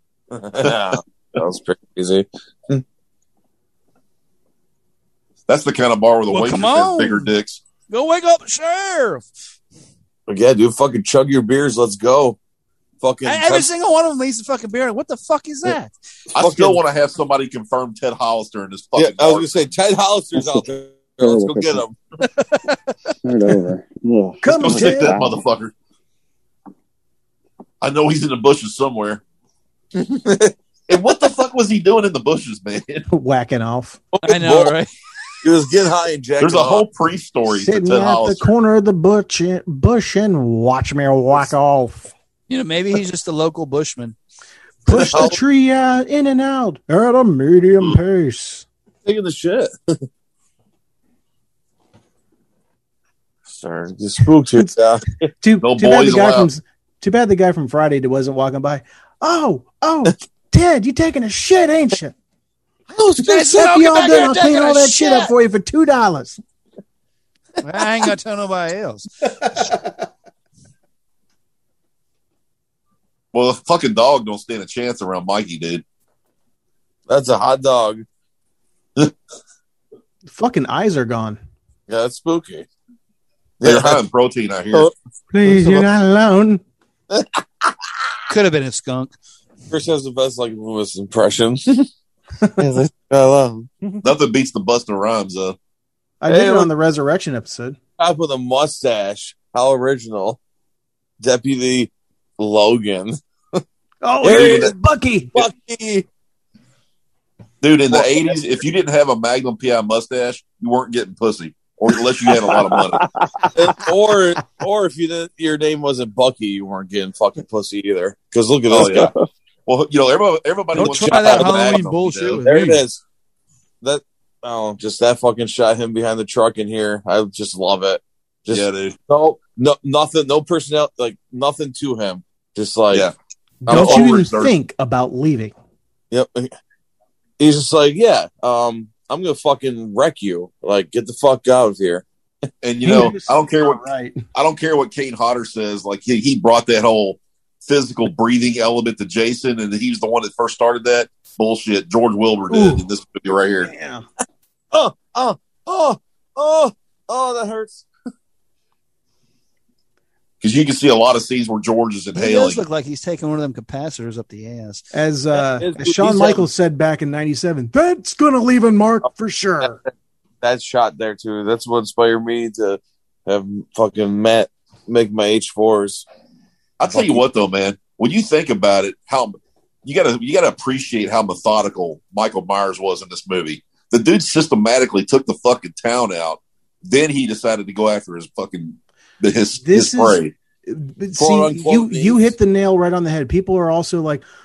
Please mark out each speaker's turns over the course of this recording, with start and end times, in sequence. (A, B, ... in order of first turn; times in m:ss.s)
0:00.4-0:02.8 A
0:05.5-0:07.6 B
0:06.3-0:07.3 C
0:07.9-0:09.3 C
0:10.3-0:12.4 A
0:13.0-0:13.7 A
0:13.2-0:15.9 C
0:16.3-0:19.5 B
0:16.4-0:16.8 A
0:19.0-0:22.0 A
0:20.4-0:20.6 D
0:21.2-0:21.8 D
0:22.2-0:23.1 C
0:23.2-0:25.4 D
0:24.4-0:25.2 E
0:24.5-0:25.7 B
0:27.8-0:29.2 B
0:30.0-0:30.5 A
0:30.9-0:33.1 B
0:33.1-0:34.0 E
0:34.1-0:34.7 A
0:34.2-0:34.9 C
0:35.4-0:36.8 A
0:36.4-0:38.5 B
0:37.5-0:42.1 E
0:42.5-0:44.2 C
0:44.9-0:48.7 E
0:44.9-0:45.4 A
0:49.1-0:50.0 A
0:53.5-0:55.2 A
0:55.4-1:02.2 E
0:55.6-0:56.5 B
1:02.9-1:06.4 E
1:03.2-1:05.3 C
1:07.6-1:09.3 C
1:09.4-1:09.9 E
1:13.3-1:15.8 B
1:17.1-1:18.0 A
1:20.3-1:21.4 E
1:21.9-1:22.7 A
1:23.6-1:24.0 A
1:23.6-1:24.9 B
1:25.3-1:26.6 E
1:25.5-1:25.8 A
1:27.1-1:27.7 A
1:28.3-1:29.1 C
1:29.7-1:31.9 A
1:32.6-1:33.7 A
1:34.0-1:35.6 B
1:36.2-1:37.8 E
1:36.3-1:36.7 A
1:38.0-1:40.4 A
1:41.2-1:43.6 A
1:44.0-1:45.4 E
1:44.2-1:44.7 A
1:44.3-1:44.7 B
1:45.3-1:46.1 A
1:47.6-1:53.1 B
1:47.9-1:48.4 A
1:53.5-1:59.1 A
1:58.7-1:59.1 B
1:59.7-2:02.4 B
2:00.7-2:02.8 C
2:01.0-2:03.0 A
2:03.8-2:13.1 A
2:08.5-2:09.0 B
2:13.6-2:15.5 E
2:13.7-2:14.2 A
2:13.7-2:14.5 B
2:16.1-2:16.5 A
2:17.4-2:22.0 A
2:22.6-2:23.8 B
2:22.8-2:24.2 E
2:24.3-2:33.7 B
2:32.5-2:32.8 E
2:33.6-2:34.0 E
2:34.7-2:37.8 A
2:40.4-2:42.6 B
2:42.2-2:44.8 C
2:44.9-2:49.8 E
2:45.4-2:46.5 A
2:49.6-2:49.9 A
2:50.4-2:56.0 A
2:56.8-3:10.3 B
2:56.9-2:57.2 A
3:09.6-3:14.2 E
3:11.2-3:12.3 A